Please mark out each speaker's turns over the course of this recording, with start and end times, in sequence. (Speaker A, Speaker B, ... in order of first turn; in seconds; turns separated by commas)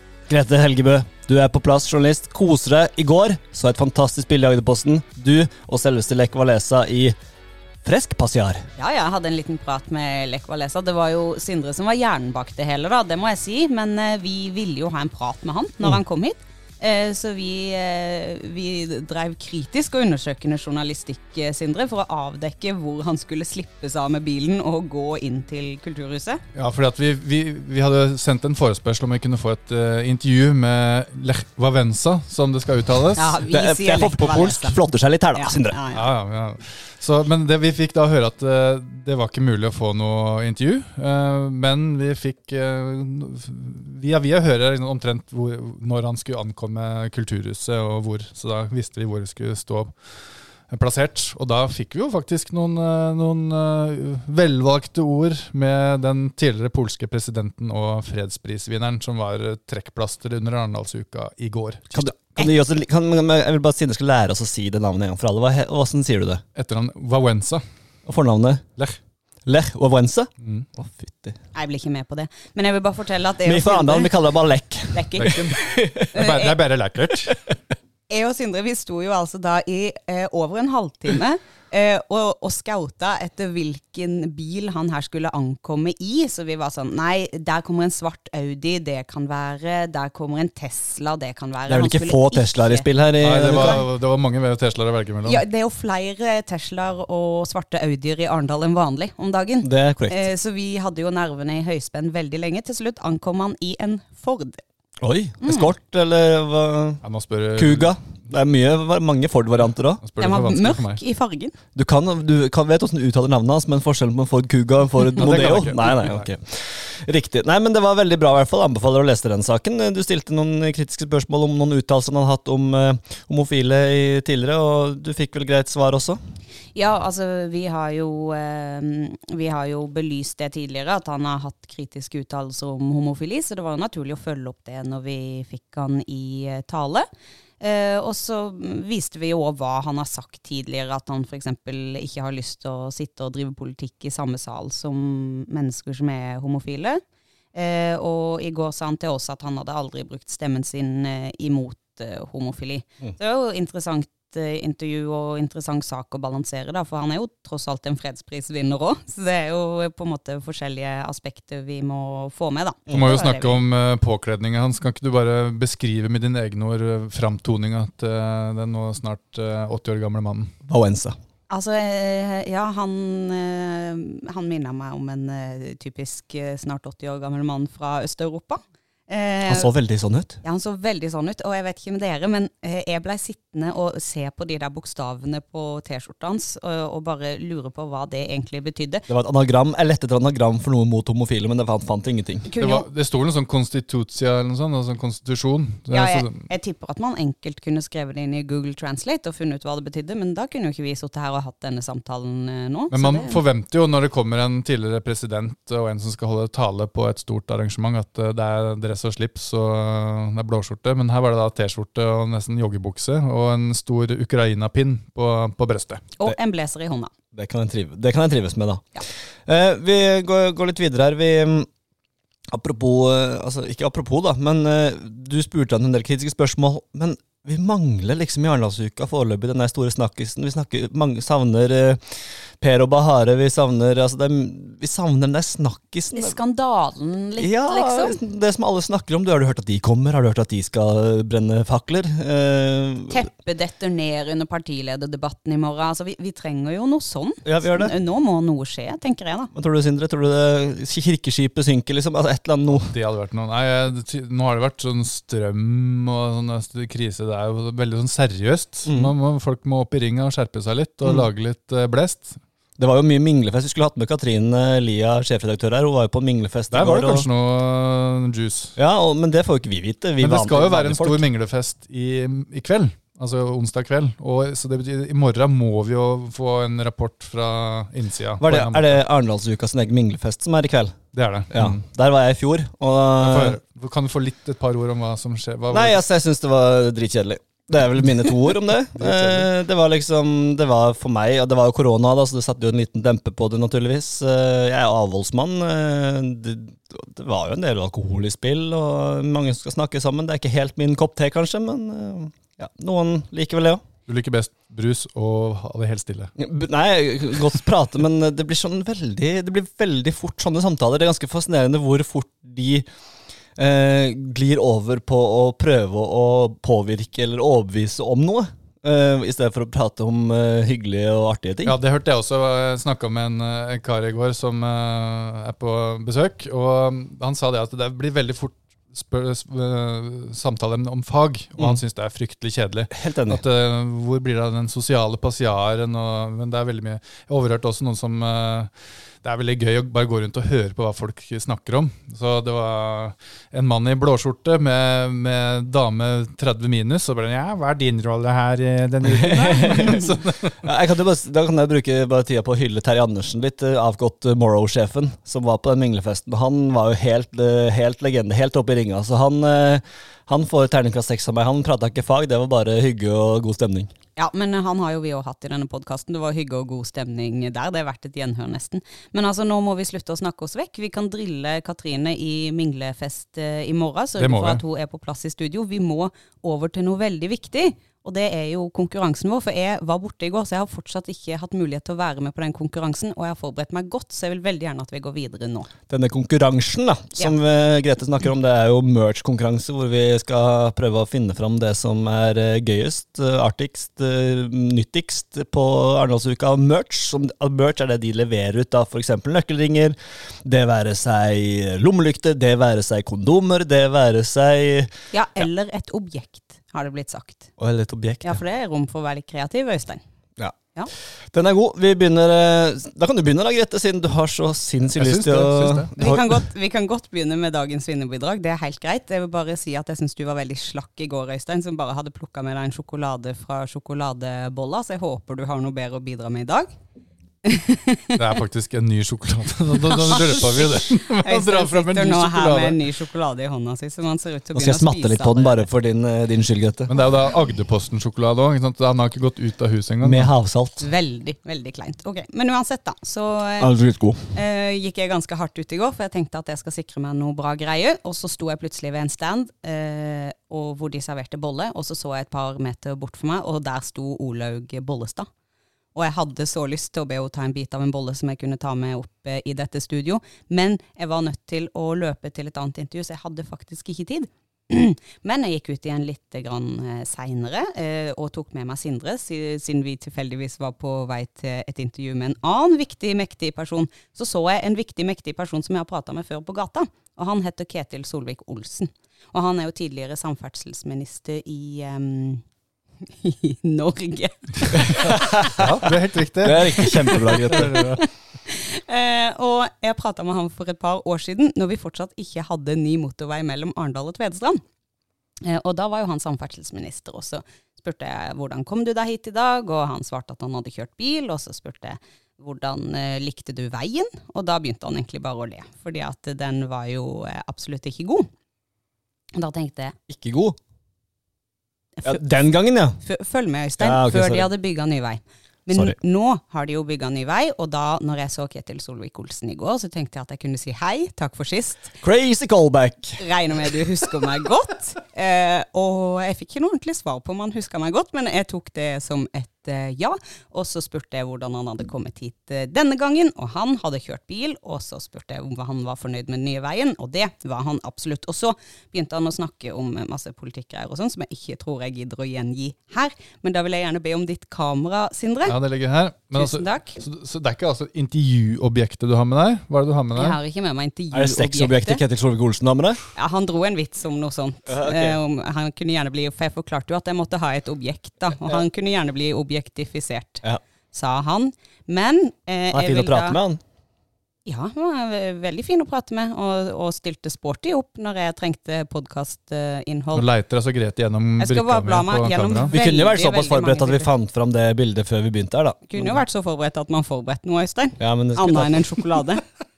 Speaker A: 0.3-7.2, Speaker A: 7.8-8.7, Speaker B: 8.8-26.4, Speaker C: 26.6-33.4, Speaker B: 33.1-34.8, Speaker A: 33.5-35.8, Speaker B: 35.4-36.1, Speaker C: 35.9-49.9, Speaker C: 50.7-62.1, Speaker A: 61.9-66.4, Speaker C: 66.5-67.6, Speaker A: 68.1-68.7, Speaker A: 69.5-71.4, Speaker B: 71.5-74.1, Speaker A: 73.4-76.1, Speaker B: 74.9-76.6, Speaker C: 75.2-77.5, Speaker B: 78.1-92.9, Speaker A: 91.7-93.8, Speaker C: 93.2-95.4, Speaker B: 93.5-93.8, Speaker B: 95.2-104.6, Speaker A: 99.6-100.3, Speaker A: 105.0-107.0, Speaker B: 105.4-105.7, Speaker C: 107.0-107.9, Speaker A: 107.6-110.0, Speaker C: 110.0-111.0, Speaker B: 110.2-111.5, Speaker A: 111.8-126.2, Speaker C: 115.2-116.3, Speaker B: 126.8-137.1, Speaker B: 137.6-147.0, Speaker B: 147.5-163.7, Speaker C: 162.9-170.5, Speaker A: 170.7-171.2, Speaker B: 171.5-179.7, Speaker A: 179.5-180.4, Speaker B: 180.4-189.1, Speaker A: 189.1-192.5, Speaker B: 192.5-192.9, Speaker C: 192.6-196.5, Speaker B: 195.9-203.4, Speaker C: 202.9-216.0, Speaker B: 216.2-217.1, Speaker A: 217.3-218.9, Speaker A: 219.5-221.7, Speaker A: 222.5-236.3, Speaker B: 236.1-238.2, Speaker A: 237.4-243.2, Speaker B: 243.1-249.5, Speaker A: 247.4-247.9, Speaker A: 249.5-252.9, Speaker C: 252.9-262.4, Speaker A: 258.9-259.1, Speaker A: 262.8-267.3, Speaker C: 266.7-268.8, Speaker A: 268.8-271.2, Speaker C: 270.2-279.0, Speaker A: 278.4-281.0, Speaker C: 281.1-281.8, Speaker A: 281.5-283.6, Speaker C: 283.2-286.0, Speaker A: 285.7-303.8, Speaker C: 288.9-289.5, Speaker C: 304.1-306.3, Speaker A: 306.4-312.9, Speaker A: 313.6-321.8, Speaker C: 321.6-338.7, Speaker A: 333.0-333.4, Speaker C: 339.2-350.6, Speaker A: 349.1-363.9, Speaker B: 364.2-385.7, Speaker C: 374.2-374.6, Speaker A: 385.9-404.9, Speaker B: 405.1-407.5, Speaker A: 407.6-408.4, Speaker B: 408.2-410.0, Speaker A: 411.3-416.2, Speaker C: 414.9-416.0, Speaker B: 416.0-426.7, Speaker B: 427.4-428.2, Speaker C: 428.1-432.8, Speaker B: 429.9-435.7, Speaker A: 434.6-436.9, Speaker C: 436.9-440.3, Speaker A: 440.0-440.9, Speaker B: 440.8-443.8, Speaker A: 443.6-444.2, Speaker B: 444.3-455.3, Speaker B: 455.9-482.4, Speaker B: 483.0-485.7, Speaker A: 484.9-485.4, Speaker C: 485.4-488.0, Speaker A: 486.4-487.9, Speaker B: 486.8-494.6, Speaker B: 495.4-508.3, Speaker B: 509.4-509.9, Speaker A: 510.1-510.6, Speaker A: 512.0-513.0, Speaker B: 513.0-521.9, Speaker A: 513.8-514.5, Speaker A: 522.0-523.2, Speaker B: 523.2-545.6, Speaker C: 545.5-550.4, Speaker B: 546.4-547.0, Speaker B: 550.1-552.0, Speaker A: 551.1-553.0, Speaker B: 553.1-563.4, Speaker A: 554.7-555.2, Speaker A: 562.7-563.6, Speaker B: 564.5-570.3, Speaker C: 570.1-572.7, Speaker B: 571.4-574.1, Speaker A: 572.7-576.2, Speaker B: 575.9-579.4, Speaker A: 578.0-579.0